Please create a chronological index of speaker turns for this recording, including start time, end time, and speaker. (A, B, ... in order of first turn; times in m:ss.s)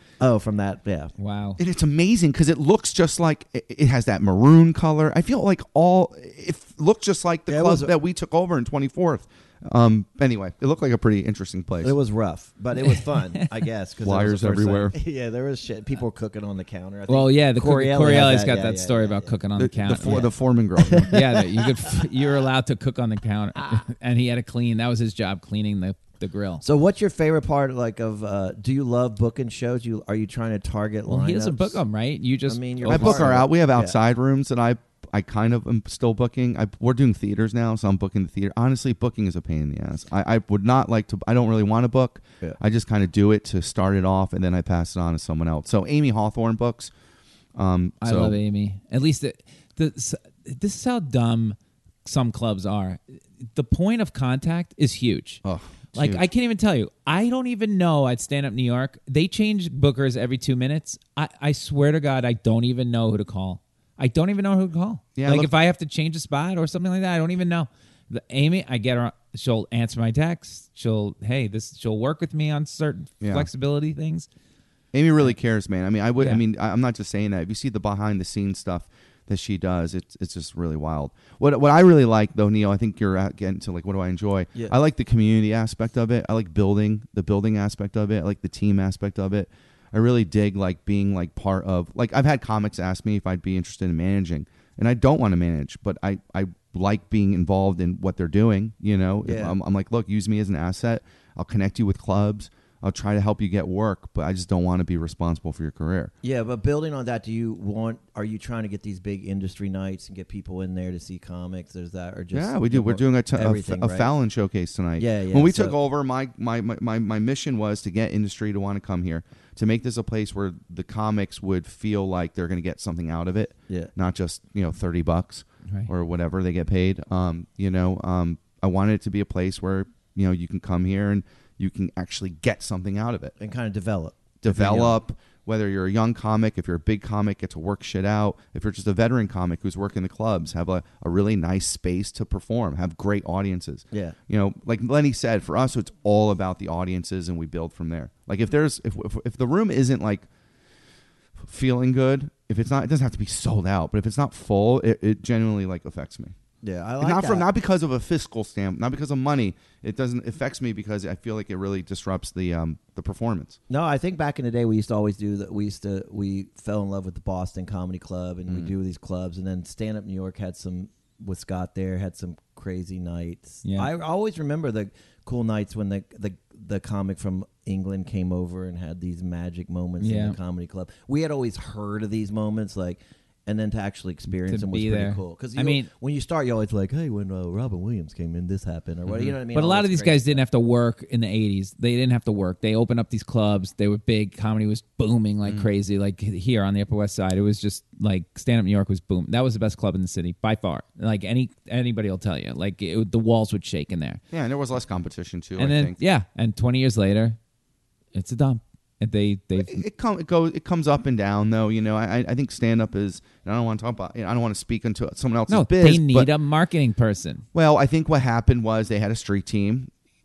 0:00.2-0:01.1 A
0:01.2-0:01.6 B
0:01.6-0:12.0 C
0:07.5-0:07.9 A
0:11.8-0:19.3 A
0:12.8-0:13.4 B
0:14.0-0:15.0 C
0:17.1-0:20.3 B
0:19.6-0:21.2 C
0:20.8-0:21.7 A
0:21.1-0:26.6 B
0:26.6-0:31.8 A
0:31.1-0:33.3 B
0:32.5-0:34.0 A
0:32.9-0:46.9 C
0:47.6-0:48.4 C
0:48.0-0:53.0 B
0:53.5-0:55.4 B
0:55.4-0:56.2 C
0:56.0-1:14.3 B
1:05.2-1:05.5 C
1:13.2-1:13.5 C
1:14.9-1:46.1 C
1:39.2-1:39.6 A
1:46.2-1:54.1 A
1:52.3-2:13.3 C
1:55.0-1:55.8 A
2:13.4-2:15.0 A
2:14.4-2:30.3 C
2:31.4-2:36.3 C
2:36.6-2:37.5 A
2:37.0-2:43.6 C
2:43.7-3:10.4 A
2:53.6-2:53.9 B
3:00.0-3:00.4 B
3:04.5-3:05.9 B
3:09.1-3:09.4 C
3:09.5-3:24.2 B
3:15.4-3:15.7 C
3:24.3-3:26.0 C
3:25.6-3:27.4 B
3:28.1-3:29.8 B
3:29.6-3:36.3 C
3:35.5-3:37.4 B
3:37.5-3:39.9 C